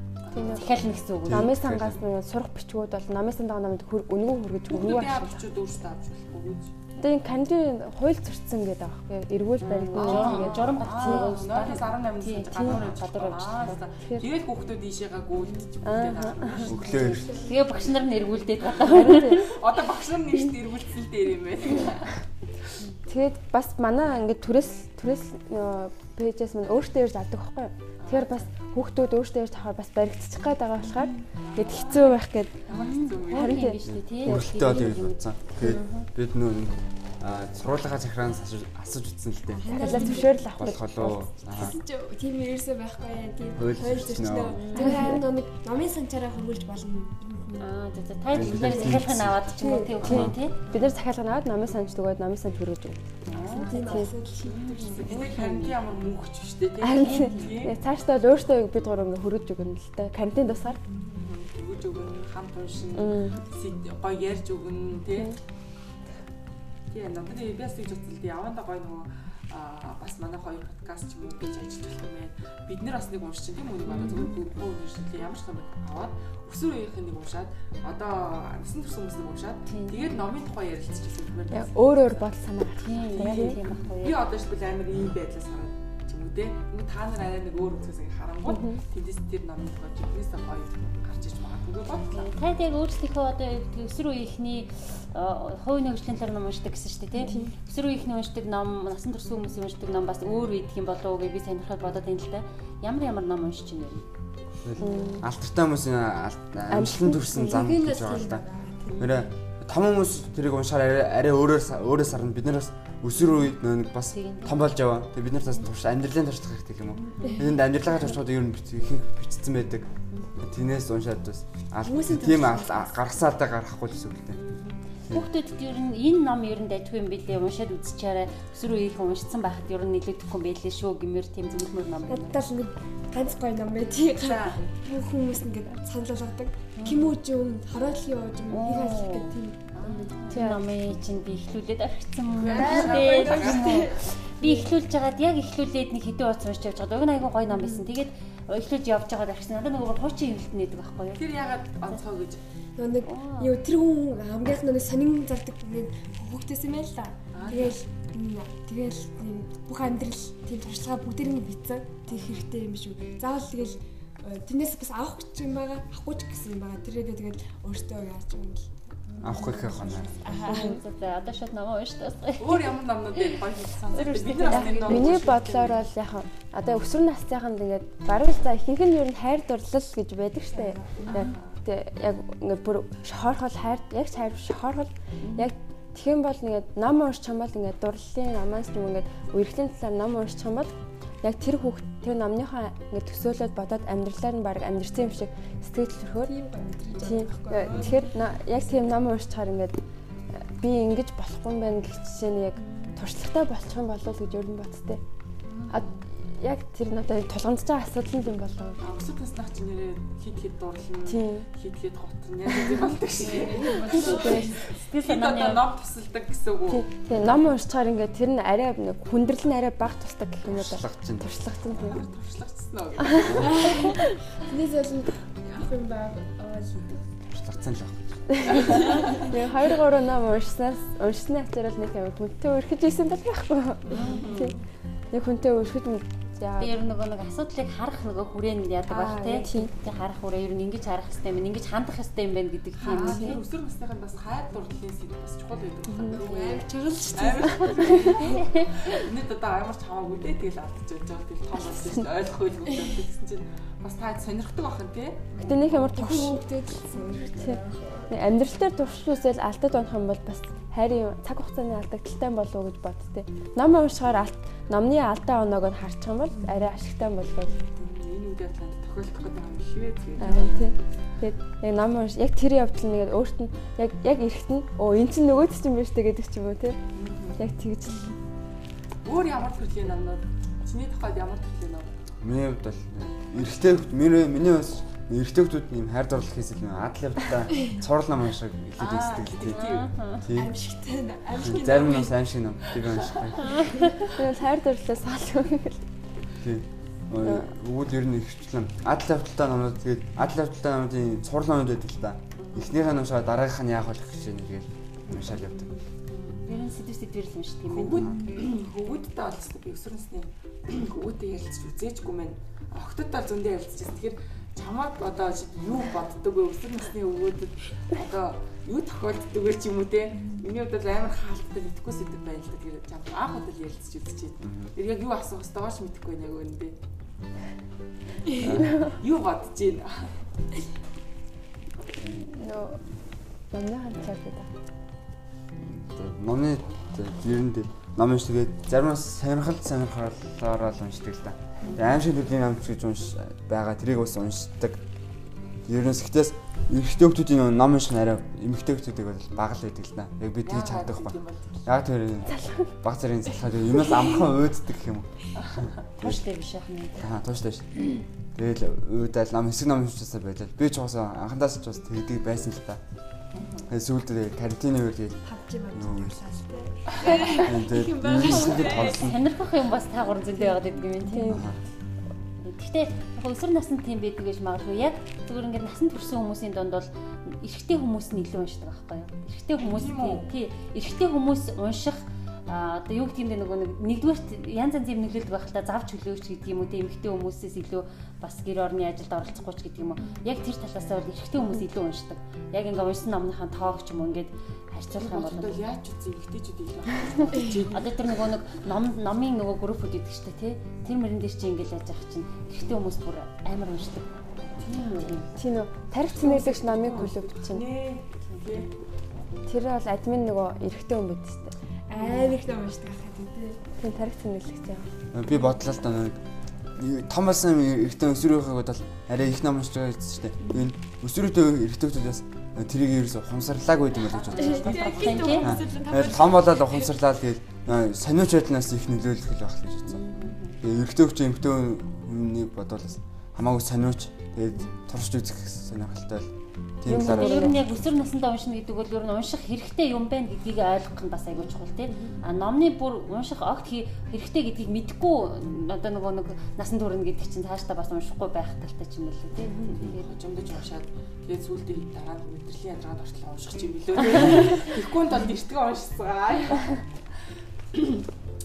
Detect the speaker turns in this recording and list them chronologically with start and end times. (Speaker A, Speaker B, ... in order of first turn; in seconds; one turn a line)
Speaker A: 0.2-0.8
Speaker B: 0.3-5.4
Speaker C: 0.5-1.5
Speaker D: 1.2-2.0
Speaker A: 4.7-6.7
Speaker B: 7.0-11.4
Speaker C: 9.6-13.8
Speaker A: 9.9-17.1
Speaker B: 15.8-16.8
Speaker D: 16.6-17.4
Speaker C: 16.8-19.6
Speaker E: 16.9-17.5
Speaker A: 18.6-22.8
Speaker B: 18.8-19.4
Speaker B: 23.1-32.6
Speaker A: 28.0-28.5
Speaker A: 31.5-33.7
Speaker C: 32.7-36.1
Speaker B: 33.2-35.0
Speaker D: 33.9-41.8
Speaker E: 39.5-47.7
Speaker B: 39.7-41.2
Speaker D: 43.6-44.6
Speaker C: 44.5-45.1
Speaker B: 44.8-45.2
Speaker C: 47.6-50.6
Speaker D: 48.3-50.4
Speaker E: 48.6-48.9
Speaker E: 49.6-50.0
Speaker B: 50.0-54.1
Speaker C: 53.2-55.3
Speaker A: 53.4-53.9
Speaker E: 53.5-55.3
Speaker A: 54.5-57.7
Speaker B: 55.4-55.7
Speaker B: 56.8-60.8
Speaker C: 57.0-57.5
Speaker A: 61.0-65.4
Speaker B: 63.0-63.4
Speaker A: 66.9-82.3
Speaker C: 73.9-74.3
Speaker B: 74.0-74.2
Speaker C: 79.7-80.0
Speaker B: 81.5-83.6
Speaker C: 82.8-84.2
Speaker A: 83.2-92.3
Speaker B: 88.5-88.8
Speaker C: 92.1-104.0
Speaker B: 97.2-97.5
Speaker D: 104.6-108.4
Speaker B: 104.8-105.2
Speaker B: 106.7-107.6
Speaker E: 107.4-109.2
Speaker D: 109.0-124.4
Speaker C: 114.1-114.7
Speaker C: 117.1-117.4
Speaker E: 121.8-123.0
Speaker C: 124.3-132.4
Speaker E: 132.1-140.1
Speaker A: 134.2-134.6
Speaker C: 136.8-137.1
Speaker C: 138.5-151.2
Speaker A: 139.7-140.1
Speaker B: 140.3-140.6
Speaker A: 142.4-143.9
Speaker E: 142.5-144.7
Speaker E: 147.6-147.8
Speaker A: 151.2-152.4
Speaker E: 152.8-168.7
Speaker C: 153.1-153.5
Speaker A: 157.3-157.8
Speaker C: 169.1-175.3
Speaker D: 169.2-170.1
Speaker E: 169.3-170.8
Speaker A: 172.4-175.8
Speaker B: 174.5-196.3
Speaker E: 180.5-181.0
Speaker C: 181.0-181.3
Speaker A: 181.1-181.6
Speaker E: 196.2-198.2
Speaker B: 197.0-199.8
Speaker B: 200.4-205.0
Speaker A: 205.5-206.0
Speaker B: 205.7-208.8
Speaker A: 208.8-216.9
Speaker B: 211.1-211.4
Speaker E: 213.2-214.5
Speaker C: 213.9-215.6
Speaker B: 214.0-214.6
Speaker B: 216.7-222.1
Speaker D: 220.4-221.3
Speaker A: 221.7-223.8
Speaker B: 223.0-224.1
Speaker E: 223.2-227.1
Speaker D: 227.3-228.6
Speaker B: 228.3-234.6
Speaker E: 228.7-229.3
Speaker A: 233.9-234.6
Speaker C: 233.9-234.3
Speaker B: 235.1-236.7
Speaker C: 236.6-243.4
Speaker B: 238.9-239.7
Speaker A: 242.8-246.6
Speaker B: 242.9-243.3
Speaker B: 245.9-246.2
Speaker E: 246.1-248.5
Speaker A: 247.2-255.3
Speaker C: 248.4-248.7
Speaker B: 255.4-256.4
Speaker E: 255.4-258.1
Speaker B: 257.3-257.6
Speaker B: 258.1-267.6
Speaker E: 266.3-266.7
Speaker A: 267.6-270.5
Speaker E: 270.2-270.6
Speaker B: 270.2-276.8
Speaker A: 276.9-277.4
Speaker B: 277.4-278.2
Speaker A: 279.0-281.9
Speaker D: 282.2-289.6
Speaker A: 288.8-289.9
Speaker C: 289.5-290.3
Speaker D: 290.2-290.6
Speaker E: 290.3-292.1
Speaker D: 291.4-293.6
Speaker A: 292.6-293.3
Speaker C: 293.4-293.9
Speaker E: 293.5-293.9
Speaker B: 294.1-295.8
Speaker D: 296.4-305.7
Speaker B: 297.2-297.5
Speaker A: 302.4-302.8
Speaker C: 305.2-305.7
Speaker A: 306.1-306.4
Speaker C: 306.4-308.2
Speaker A: 307.7-326.7
Speaker D: 307.9-308.2
Speaker D: 324.4-324.7
Speaker E: 328.2-328.5
Speaker D: 328.4-328.7
Speaker A: 328.4-330.2
Speaker B: 328.4-328.9
Speaker B: 332.1-332.8
Speaker B: 333.5-334.5
Speaker D: 335.6-344.8
Speaker D: 345.7-355.1
Speaker A: 350.4-351.6
Speaker B: 352.3-352.7
Speaker A: 355.4-355.7
Speaker D: 355.6-356.2
Speaker C: 356.0-357.1
Speaker D: 357.0-362.8
Speaker A: 363.3-363.7
Speaker D: 363.7-366.2
Speaker E: 365.2-369.1
Speaker D: 367.3-369.2
Speaker C: 368.8-371.4
Speaker E: 370.3-371.3
Speaker B: 371.1-371.5
Speaker D: 371.3-371.6
Speaker C: 372.4-395.6
Speaker A: 379.6-380.3
Speaker A: 395.0-397.9
Speaker C: 397.7-404.1
Speaker A: 404.6-405.2
Speaker C: 404.6-405.3
Speaker B: 405.3-407.6
Speaker A: 406.1-408.7
Speaker B: 409.5-411.5
Speaker E: 411.9-413.6
Speaker B: 413.8-414.9
Speaker D: 415.1-416.2
Speaker D: 416.7-424.7
Speaker A: 424.1-425.6
Speaker E: 424.4-426.9
Speaker C: 424.7-425.5
Speaker D: 425.4-430.1
Speaker C: 429.9-430.6
Speaker D: 430.6-437.7
Speaker B: 436.9-437.6
Speaker C: 436.9-450.1
Speaker B: 441.9-442.2
Speaker B: 449.4-449.7
Speaker A: 449.9-456.8
Speaker A: 457.7-458.1